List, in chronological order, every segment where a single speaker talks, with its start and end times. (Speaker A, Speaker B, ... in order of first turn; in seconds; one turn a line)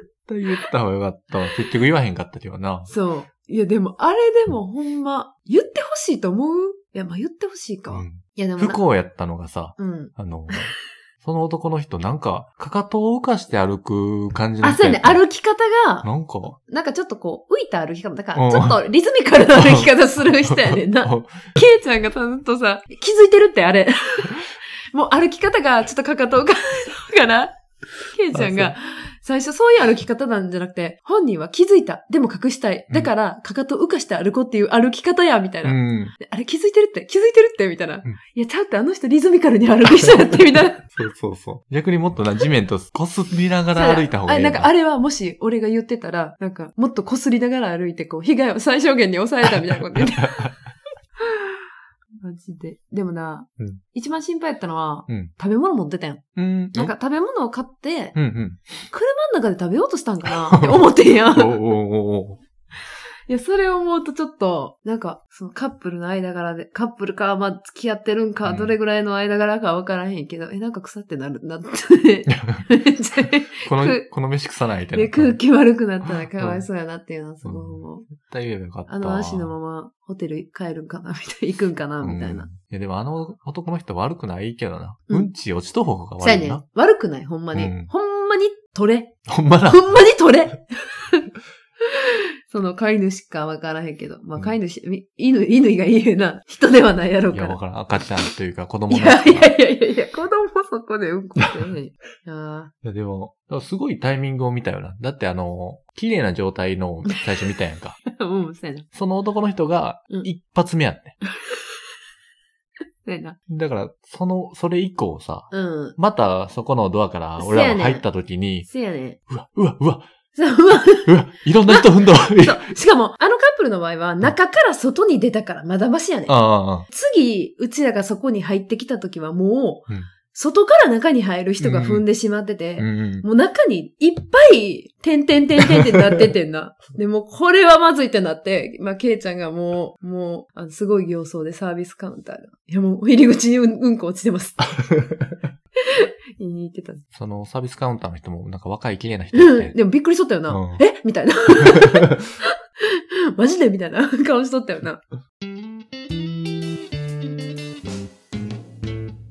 Speaker A: 0.3-2.9
Speaker B: 2.9-8.8
Speaker A: 7.9-15.2
Speaker B: 9.8-10.6
Speaker B: 14.6-40.8
Speaker A: 16.0-16.6
Speaker A: 18.3-18.8
Speaker A: 19.5-21.5
Speaker A: 28.3-28.7
Speaker A: 35.6-36.1
Speaker A: 40.0-40.3
Speaker A: 40.8-44.7
Speaker B: 43.7-50.5
Speaker A: 49.9-50.5
Speaker B: 51.2-51.6
Speaker B: 52.2-58.1
Speaker A: 56.4-56.9
Speaker A: 58.1-58.6
Speaker B: 58.9-61.6
Speaker A: 60.3-62.4
Speaker B: 63.3-74.1
Speaker A: 68.4-68.7
Speaker A: 73.6-75.4
Speaker B: 74.9-78.1
Speaker A: 76.3-76.6
Speaker A: 77.4-79.5
Speaker B: 78.9-82.5
Speaker A: 82.0-86.6
Speaker B: 86.2-91.3
Speaker A: 87.5-87.9
Speaker A: 89.3-90.0
Speaker B: 91.9-97.6
Speaker A: 97.3-99.5
Speaker B: 98.9-102.7
Speaker A: 102.8-108.0
Speaker B: 108.1-108.9
Speaker A: 108.9-111.2
Speaker B: 111.4-111.8
Speaker B: 113.0-113.4
Speaker A: 113.5-118.7
Speaker B: 115.5-116.0
Speaker B: 117.4-118.0
Speaker B: 118.6-119.2
Speaker A: 119.3-120.0
Speaker B: 120.3-145.1
Speaker A: 121.0-122.7
Speaker A: 126.3-126.9
Speaker A: 131.6-132.1
Speaker A: 132.8-133.2
Speaker B: 145.9-147.0
Speaker A: 147.1-149.8
Speaker B: 149.3-155.0
Speaker A: 150.5-150.8